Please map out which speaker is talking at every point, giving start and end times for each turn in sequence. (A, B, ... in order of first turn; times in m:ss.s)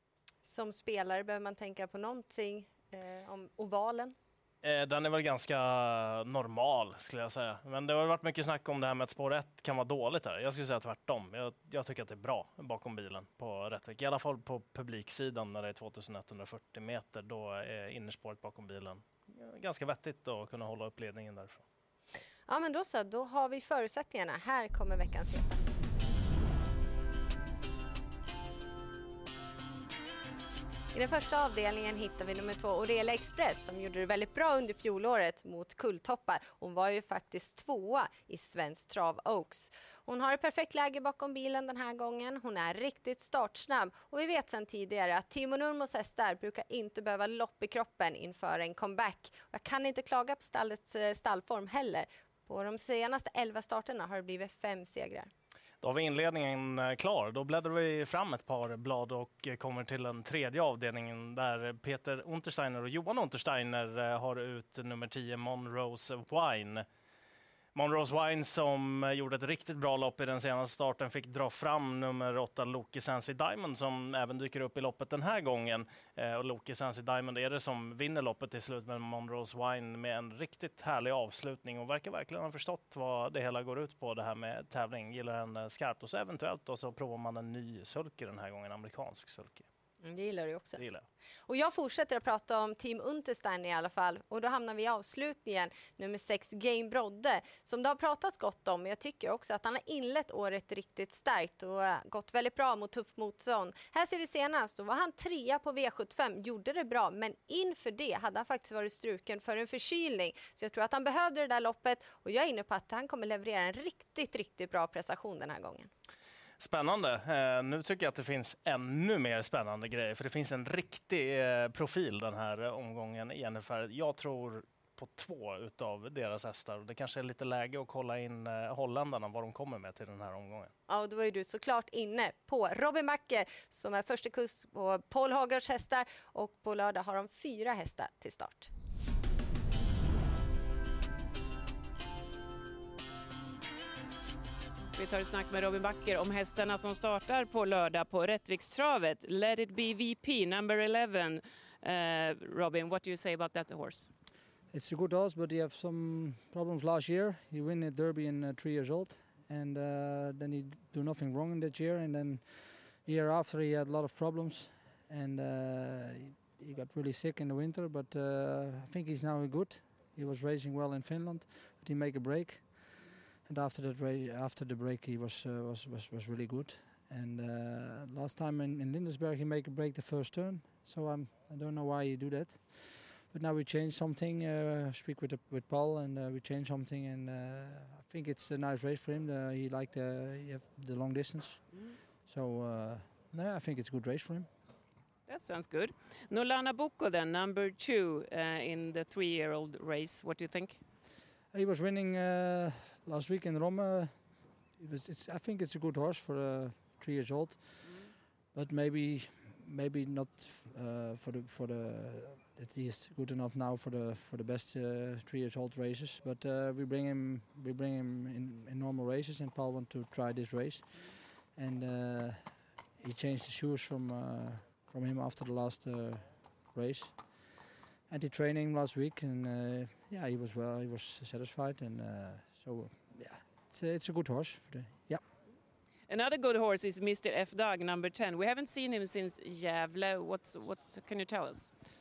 0:00.4-0:04.2 A
0:04.6-0:21.6 B
0:22.5-0:25.6 A
0:30.9-0:55.3 A
0:55.8-1:06.8 B
1:07.8-1:29.7 B
1:30.0-1:30.8 A
1:30.8-1:31.1 B
1:31.5-1:55.9 A
1:56.6-2:10.7 B
2:10.9-2:18.7 A
2:25.0-2:34.1 C
2:34.7-3:14.5 D
3:15.3-3:20.8 C
3:21.5-3:47.5 D
3:27.8-3:28.1 C
3:48.1-3:55.2 D
3:56.1-4:01.7 C